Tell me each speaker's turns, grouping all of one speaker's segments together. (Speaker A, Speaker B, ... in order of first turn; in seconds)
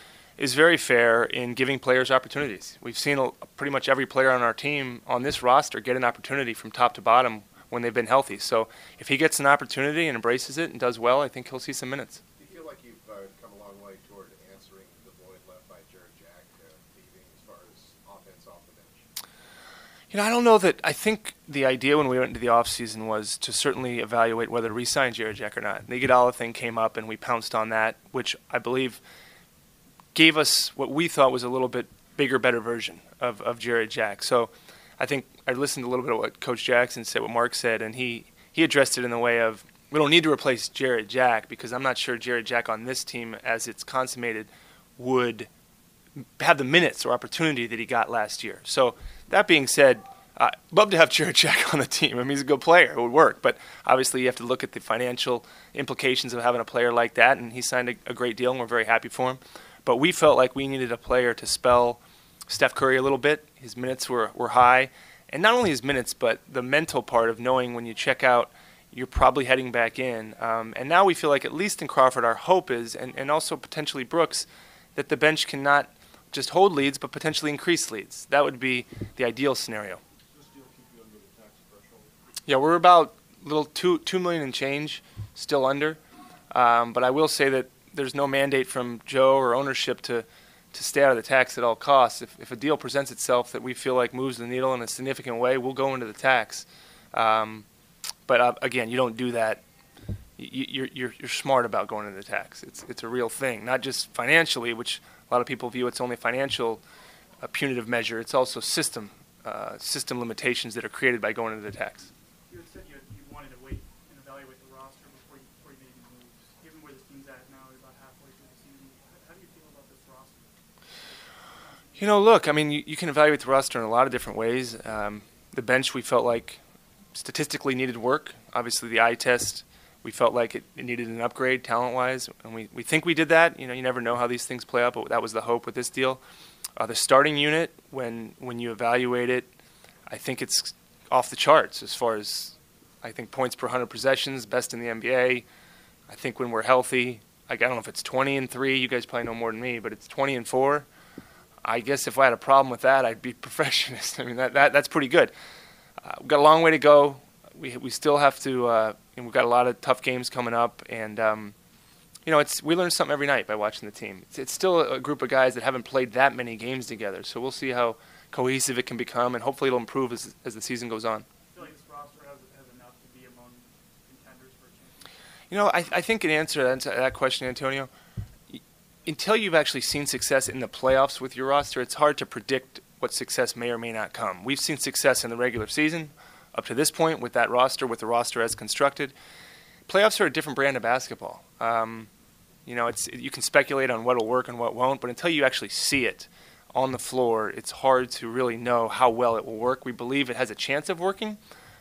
Speaker A: 0.4-12.2, 20.1-29.0, 30.1-45.5, 46.4-80.0, 82.5-86.0, 86.5-97.7, 98.3-99.6, 100.4-106.8, 107.4-112.1, 122.0-126.6, 127.1-136.2, 136.8-139.5, 140.1-145.4, 146.1-150.9, 151.6-155.3, 156.0-161.5, 162.2-171.2, 175.5-177.9, 178.6-189.1, 189.9-192.1, 192.7-201.4
Speaker B: 12.4-19.1, 80.3-82.1
Speaker C: 112.5-120.5, 171.5-175.1